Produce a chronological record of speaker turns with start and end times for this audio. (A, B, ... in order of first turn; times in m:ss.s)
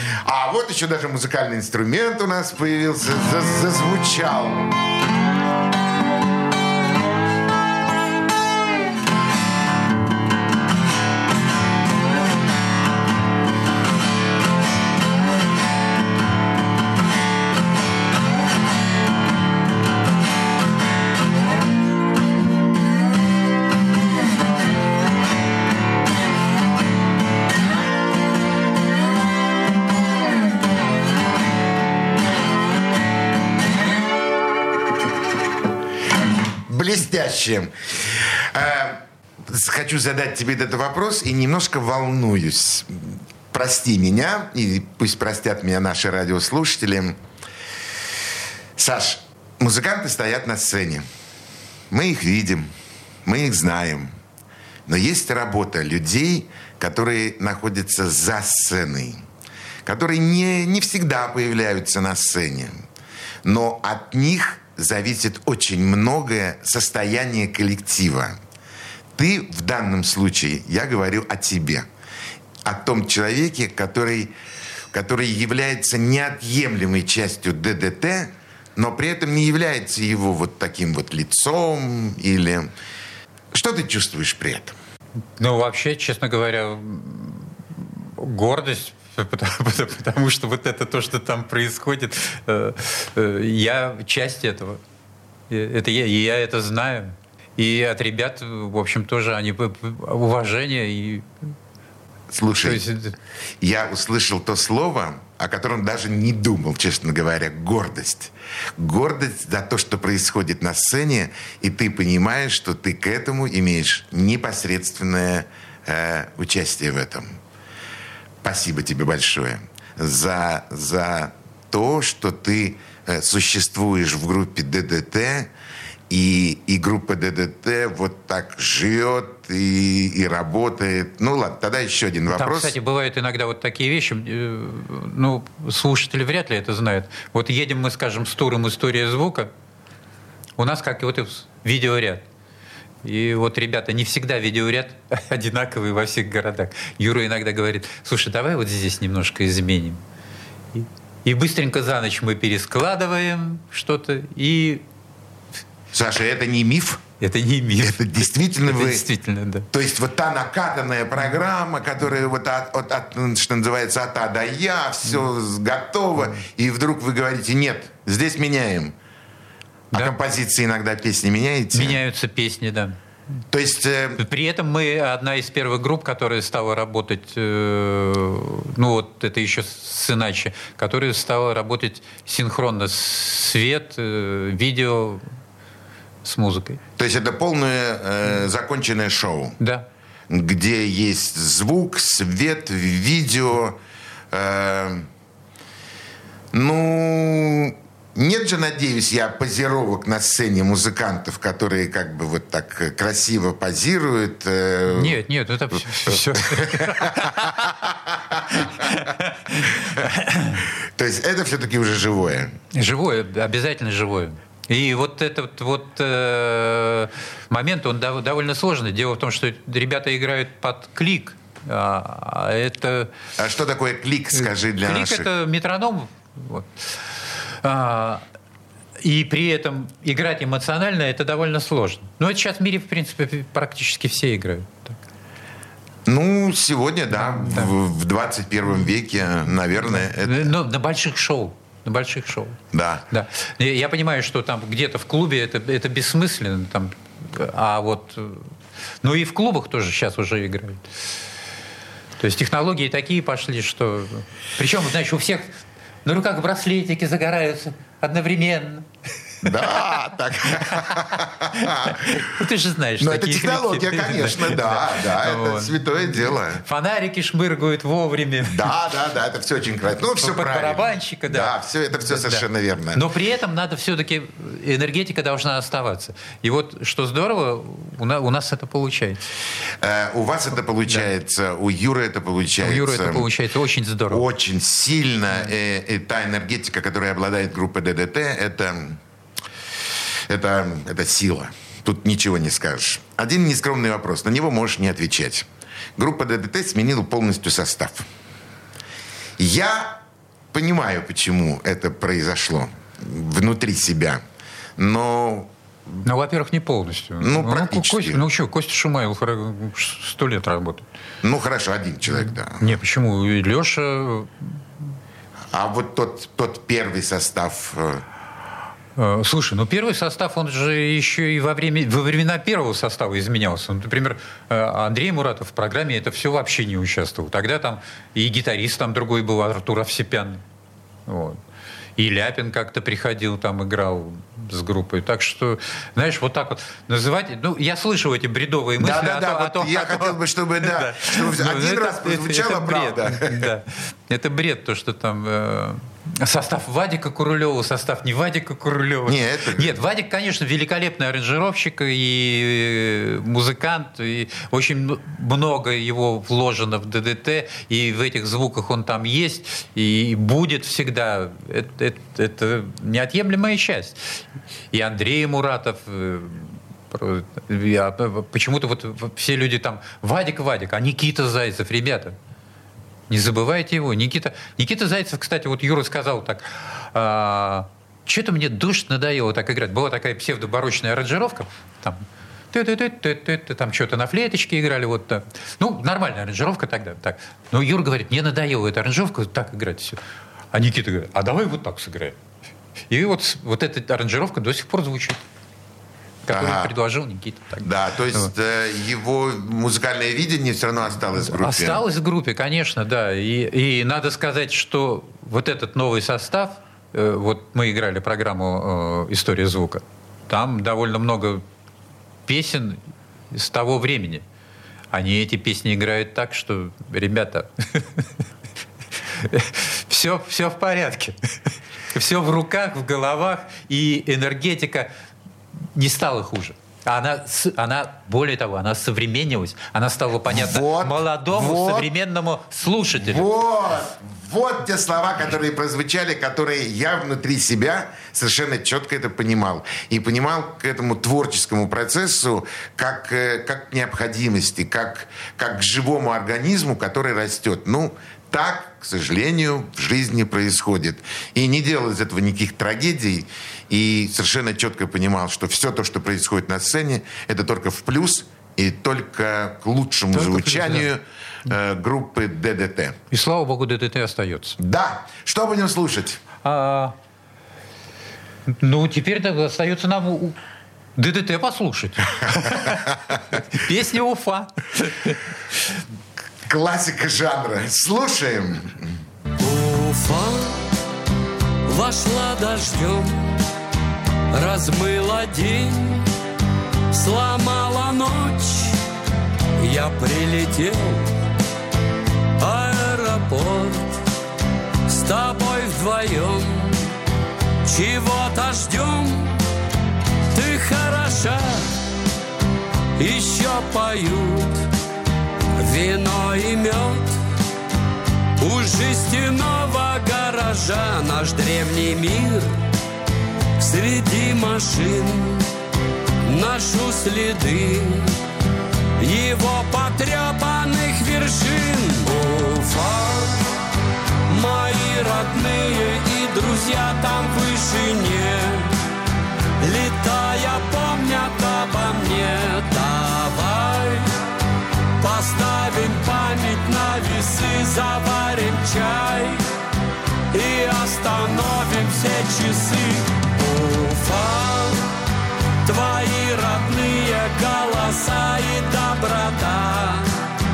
0:00.2-0:04.8 A
0:36.7-0:47.2 A
0:48.8-0:51.0 A
0:51.9-0:52.7 A
0:53.2-0:54.1 A
0:54.9-0:59.2 A
0:59.8-1:02.8 A
1:03.4-1:08.4 A
1:09.2-1:11.9 A
1:12.6-1:14.3 A
1:14.9-1:22.7 A
1:23.5-1:24.8 A
1:25.4-1:34.8 B
1:35.5-1:41.3 B
1:42.3-1:42.9 A
1:42.6-1:43.2 B
1:43.6-1:57.4 A
1:58.4-2:05.5 A
2:06.1-2:12.8 A
2:12.3-2:19.5 B
2:20.6-2:22.2 B
2:23.0-2:30.0 B
2:30.7-2:34.8 B
2:35.9-2:37.0 A
2:37.2-2:39.7 B
2:37.8-2:39.0 A
2:39.7-2:49.0 A
2:49.9-2:52.0 A
2:51.7-2:53.0 B
2:53.5-2:54.2 A
2:54.2-3:05.3 B
3:06.2-3:06.8 B
3:07.0-3:09.6 A
3:09.6-3:09.9 B
3:10.3-3:13.8 A
3:14.3-3:15.1 A
3:16.5-3:25.2 A
3:24.9-3:27.8 B
3:26.1-3:28.9 A
3:28.5-3:30.6 B
3:31.0-3:32.6 A
3:32.7-3:43.1 B
3:43.4-3:45.3 A
3:44.4-3:47.0 B
3:47.6-3:48.2 B
3:49.0-3:55.0 B
3:56.1-4:00.5 A
3:57.2-3:57.7 B
3:59.9-4:02.6 B
4:02.7-4:03.0 A
4:03.1-4:08.5 B
4:09.0-4:10.8 B
4:12.2-4:18.9 B
4:19.4-4:22.2 A
4:20.7-4:21.0 B
4:21.5-4:28.7 B
4:23.0-4:26.6 A
4:28.5-4:33.0 A
4:30.2-4:32.4 B
4:33.0-4:39.2 B
4:39.8-4:43.3 A
4:42.6-4:44.2 B
4:44.1-4:49.0 A
4:50.3-4:58.1 A
4:59.4-5:00.0 A
5:00.5-5:04.2 A
5:04.8-5:05.5 A
5:06.0-5:10.9 B
5:07.2-5:08.2 A
5:11.2-5:12.8 A
5:12.1-5:14.6 B
5:15.5-5:18.0 A
5:19.0-5:30.4 B
5:31.1-5:31.4 B
5:32.0-6:04.2 B
5:38.8-5:43.5 A
5:49.1-5:49.8 A
6:04.7-6:12.2 B
6:13.1-6:30.0 B
6:30.5-6:32.2 B
6:32.9-6:35.2 B
6:36.2-6:38.3 B
6:36.3-6:36.8 A
6:37.6-6:41.8 A
6:41.2-6:51.4 B
6:52.3-6:54.2 B
6:54.9-6:58.0 B
6:59.2-7:01.2 B
7:01.9-7:04.9 B
7:05.8-7:13.3 B
7:10.3-7:11.9 A
7:12.9-7:43.0 A
7:40.1-7:40.9 B
7:43.1-7:44.6 B
7:44.6-7:46.2 A
7:46.4-7:47.0 B
7:48.5-7:50.4 B
7:51.0-7:55.4 B
7:56.5-7:58.9 A
7:59.4-8:00.7 C
8:01.7-8:03.4 C
8:04.3-8:06.1 C
8:06.9-8:08.8 C
8:09.6-8:11.2 C
8:12.4-8:14.0 C
8:14.9-8:16.9 C
8:17.6-8:19.4 C
8:20.3-8:21.7 C
8:23.0-8:24.7 C
8:25.6-8:27.2 C
8:28.4-8:32.6 C
8:33.6-8:35.5 C
8:36.2-8:38.2 C
8:39.0-8:43.5 C
8:44.3-8:48.8 C
8:49.6-8:54.1 C
8:55.0-8:59.4 C
9:00.3-9:04.9 C
9:05.6-9:10.2 C